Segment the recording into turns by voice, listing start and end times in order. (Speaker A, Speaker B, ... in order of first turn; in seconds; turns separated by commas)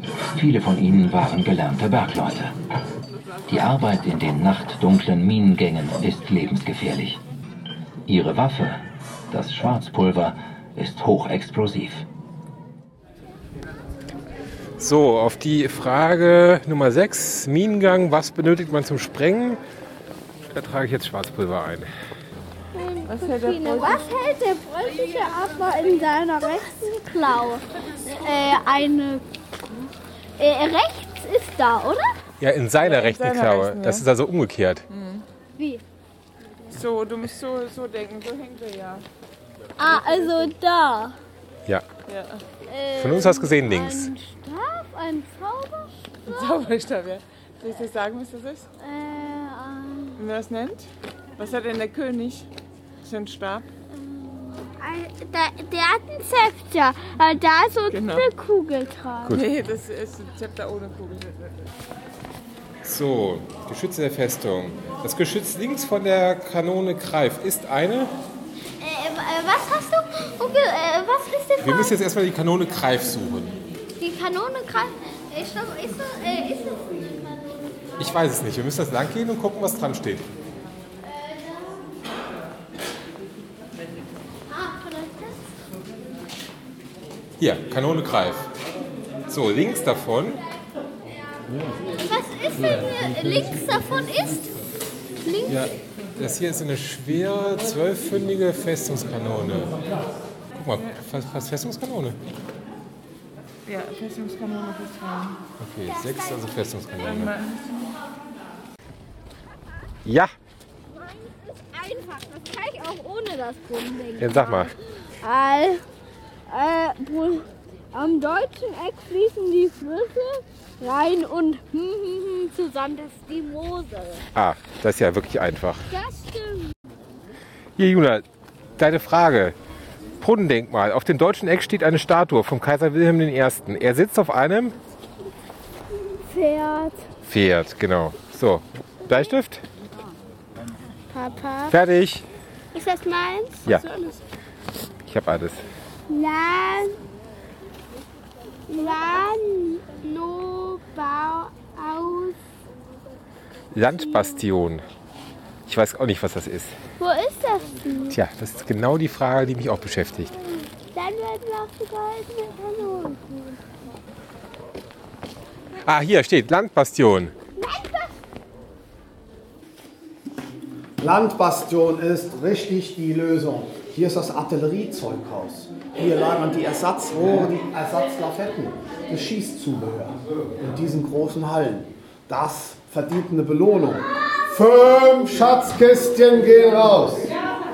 Speaker A: 0.3-2.5, Speaker A: 3.5-7.2, Speaker A: 8.1-12.1, Speaker B: 14.8-19.6, Speaker B: 20.5-21.9, Speaker C: 22.7-29.2, Speaker D: 23.1-24.0, Speaker C: 30.4-32.1, Speaker B: 32.4-34.8, Speaker D: 32.8-34.0, Speaker D: 34.9-35.2, Speaker D: 36.7-39.0, Speaker C: 39.8-41.1, Speaker D: 42.1-42.4, Speaker C: 42.6-46.5, Speaker B: 43.0-44.1, Speaker D: 46.3-48.6, Speaker C: 48.8-50.2, Speaker D: 50.2-52.5, Speaker D: 53.0-53.7, Speaker C: 53.9-59.3, Speaker D: 57.9-58.3, Speaker D: 59.3-61.4, Speaker B: 62.8-68.1, Speaker C: 68.8-71.9, Speaker B: 71.6-73.6, Speaker C: 74.0-77.6, Speaker B: 78.0-80.3, Speaker C: 81.0-81.8, Speaker C: 84.5-85.4, Speaker B: 87.4-88.5, Speaker B: 89.3-90.4, Speaker C: 91.9-94.5, Speaker C: 95.2-95.6, Speaker B: 95.5-99.8, Speaker B: 100.5-102.2, Speaker D: 103.7-105.4, Speaker B: 105.6-107.3, Speaker C: 106.0-106.4, Speaker D: 107.0-107.6, Speaker B: 110.0-110.3, Speaker C: 111.0-114.7, Speaker B: 114.2-114.7, Speaker C: 115.2-115.8, Speaker C: 116.5-124.2, Speaker B: 124.3-125.8, Speaker C: 125.9-126.7, Speaker B: 127.8-128.2, Speaker B: 128.8-129.5, Speaker B: 130.2-134.8, Speaker C: 136.2-137.0, Speaker B: 137.3-139.6, Speaker C: 141.1-141.7, Speaker B: 141.7-142.2, Speaker C: 142.7-143.7, Speaker B: 145.0-145.6, Speaker C: 146.1-147.0, Speaker C: 148.7-152.3, Speaker B: 153.7-154.8, Speaker B: 155.7-156.8, Speaker C: 157.0-158.2, Speaker B: 158.1-160.3, Speaker C: 160.9-163.5, Speaker B: 165.8-167.3, Speaker C: 167.6-168.1, Speaker E: 171.0-187.3